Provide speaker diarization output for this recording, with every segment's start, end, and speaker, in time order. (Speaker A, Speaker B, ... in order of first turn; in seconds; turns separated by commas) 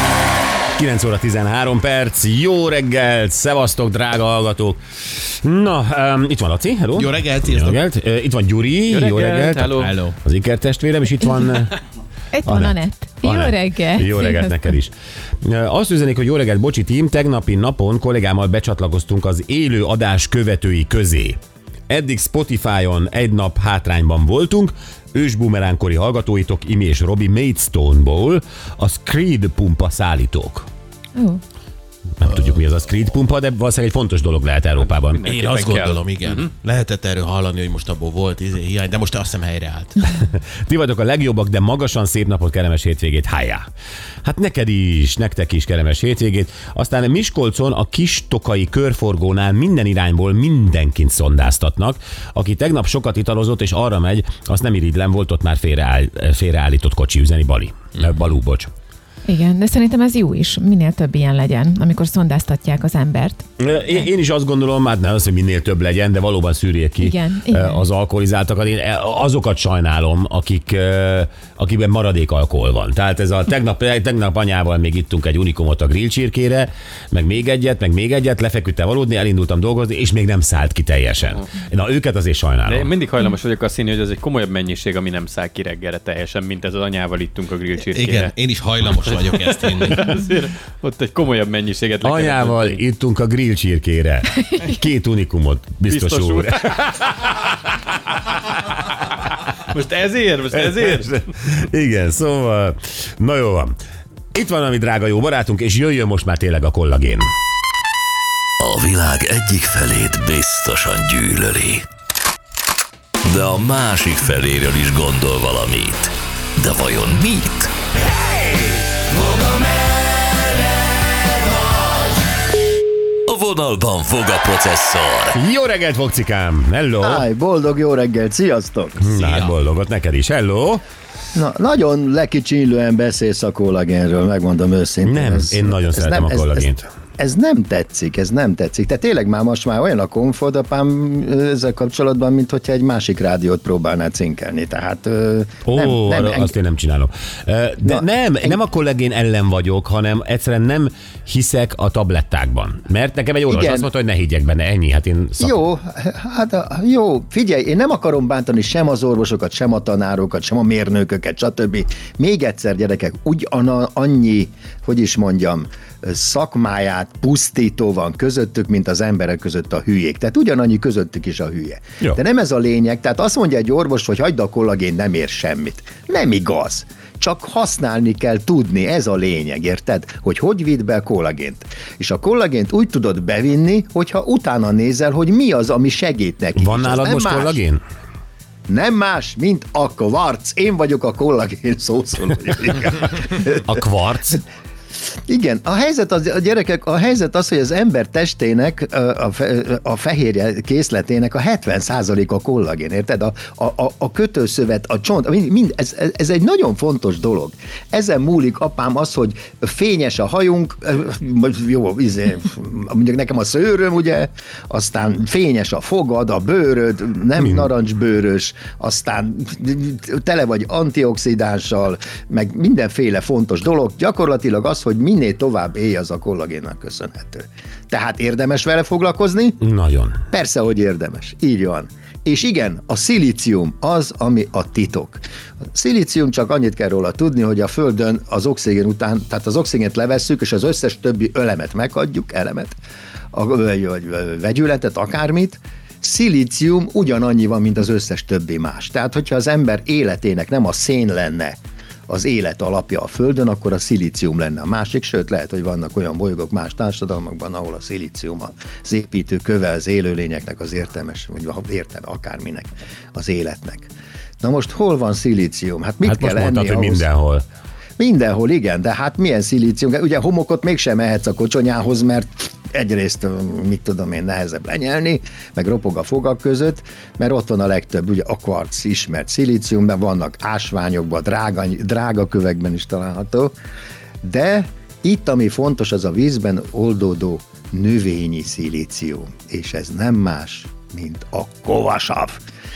Speaker A: 0.7-11.8, Speaker B: 6.9-7.8, Speaker C: 8.9-9.9, Speaker B: 9.8-10.1, Speaker D: 12.3-14.6, Speaker A: 12.5-21.4, Speaker A: 21.9-30.7, Speaker D: 31.2-31.4, Speaker A: 32.2-35.3, Speaker C: 35.1-36.5, Speaker B: 35.2-40.1, Speaker A: 40.0-43.6, Speaker A: 44.2-58.7, Speaker D: 59.2-63.5, Speaker A: 63.6-82.9, Speaker D: 67.0-67.8, Speaker C: 82.7-88.3, Speaker B: 87.8-90.1, Speaker C: 90.1-92.7, Speaker A: 92.0-98.8, Speaker C: 95.9-96.5, Speaker C: 99.7-101.0, Speaker A: 100.5-103.8, Speaker A: 104.3-107.3, Speaker E: 108.6-111.8, Speaker E: 113.2-117.7, Speaker E: 123.3-125.4, Speaker A: 125.3-127.2, Speaker F: 127.0-129.1, Speaker A: 129.0-130.8, Speaker B: 129.1-129.5, Speaker F: 131.3-146.5, Speaker A: 135.0-136.8, Speaker A: 145.6-155.5, Speaker F: 147.8-148.6, Speaker F: 153.5-153.9, Speaker F: 155.4-187.6, Speaker A: 186.6-187.8, Speaker F: 188.7-193.7, Speaker A: 193.7-194.4, Speaker F: 195.3-229.6, Speaker A: 217.4-217.7, Speaker A: 229.6-230.2, Speaker F: 230.3-235.2, Speaker F: 235.7-242.7, Speaker F: 243.3-251.6, Speaker F: 252.1-267.1, Speaker A: 266.0-267.4, Speaker F: 268.0-283.5, Speaker F: 284.2-292.4